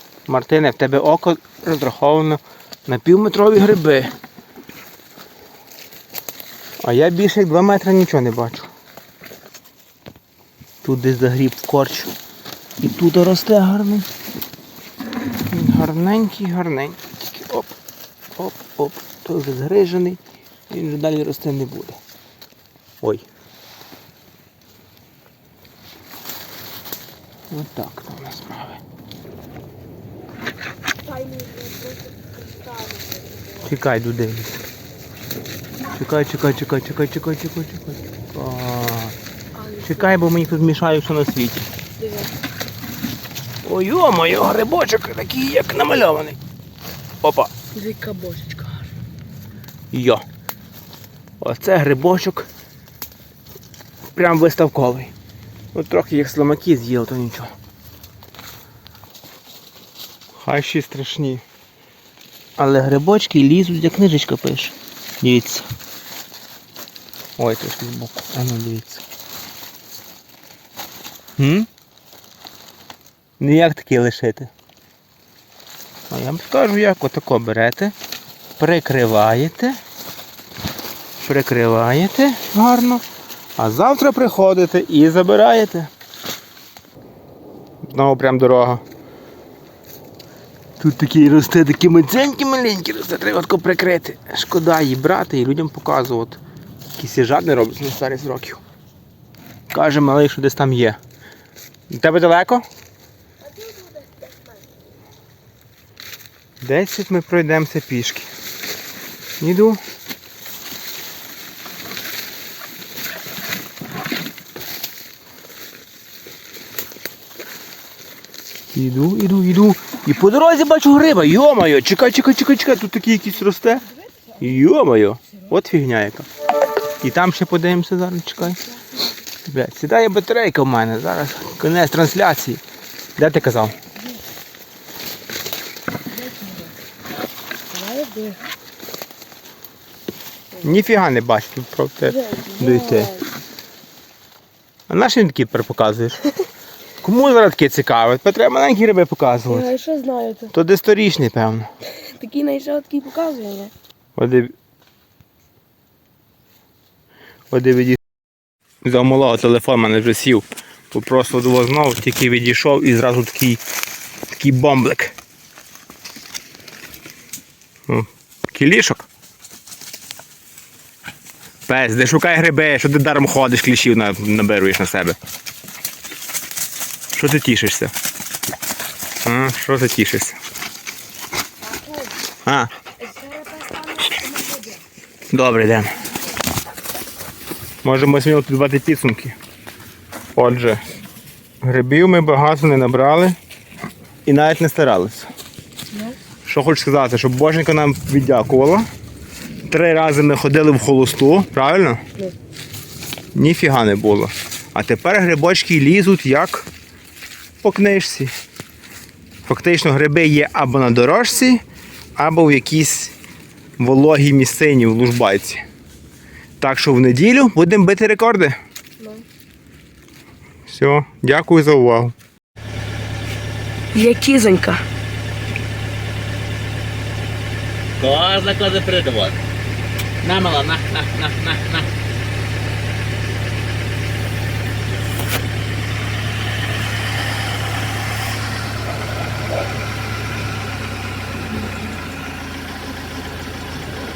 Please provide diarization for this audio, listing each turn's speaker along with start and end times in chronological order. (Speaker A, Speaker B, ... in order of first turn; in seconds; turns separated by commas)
Speaker A: 0.3-4.1, Speaker A: 6.8-8.7, Speaker A: 10.8-12.2, Speaker A: 12.8-14.1, Speaker A: 15.5-17.7, Speaker A: 18.4-22.0, Speaker A: 27.5-28.8, Speaker B: 31.0-33.7, Speaker A: 33.6-34.6, Speaker A: 35.9-39.2, Speaker B: 39.6-40.3, Speaker A: 39.8-41.7, Speaker B: 42.0-42.4, Speaker A: 43.6-46.4, Speaker A: 47.2-47.5, Speaker B: 47.7-48.9, Speaker A: 49.9-50.2, Speaker A: 51.4-52.5, Speaker A: 54.1-55.1, Speaker A: 55.7-57.5, Speaker A: 60.4-61.4, Speaker A: 62.6-65.7, Speaker A: 67.4-69.0, Speaker A: 71.4-71.7, Speaker A: 73.4-74.5, Speaker A: 76.1-77.9, Speaker A: 78.6-79.8, Speaker A: 81.2-83.0, Speaker A: 83.6-85.9, Speaker A: 87.8-88.8, Speaker A: 90.8-96.4, Speaker A: 97.0-98.6, Speaker A: 99.7-101.0, Speaker A: 101.9-102.7, Speaker B: 103.4-104.6, Speaker A: 106.6-108.3, Speaker A: 109.4-109.8, Speaker A: 118.7-126.3, Speaker A: 127.0-128.6, Speaker B: 128.4-129.2, Speaker A: 129.4-132.6, Speaker A: 133.2-133.8, Speaker B: 136.1-136.7, Speaker B: 137.7-138.4, Speaker A: 140.6-143.2, Speaker B: 142.1-143.3, Speaker A: 144.9-146.3, Speaker A: 147.0-149.7, Speaker B: 149.5-150.5, Speaker A: 150.5-151.7, Speaker B: 151.9-153.7, Speaker A: 154.2-154.5, Speaker A: 157.5-158.0, Speaker A: 158.8-163.6, Speaker A: 164.3-165.2, Speaker A: 167.9-169.1, Speaker A: 171.7-175.2, Speaker A: 177.2-177.9, Speaker A: 179.2-180.4, Speaker B: 181.6-182.2, Speaker A: 182.4-182.7, Speaker B: 183.0-184.8, Speaker A: 185.3-186.0, Speaker A: 187.8-189.4, Speaker A: 190.4-190.8, Speaker A: 191.6-193.4, Speaker A: 194.3-195.3, Speaker B: 195.9-196.2, Speaker A: 196.4-198.9, Speaker A: 199.7-202.0, Speaker A: 203.3-206.7, Speaker A: 207.6-208.3, Speaker A: 209.5-211.6, Speaker A: 212.2-213.1, Speaker A: 213.8-215.6, Speaker A: 216.6-218.6, Speaker B: 219.0-219.3, Speaker A: 220.7-222.1, Speaker B: 223.9-224.8, Speaker C: 228.0-229.4, Speaker C: 230.2-231.9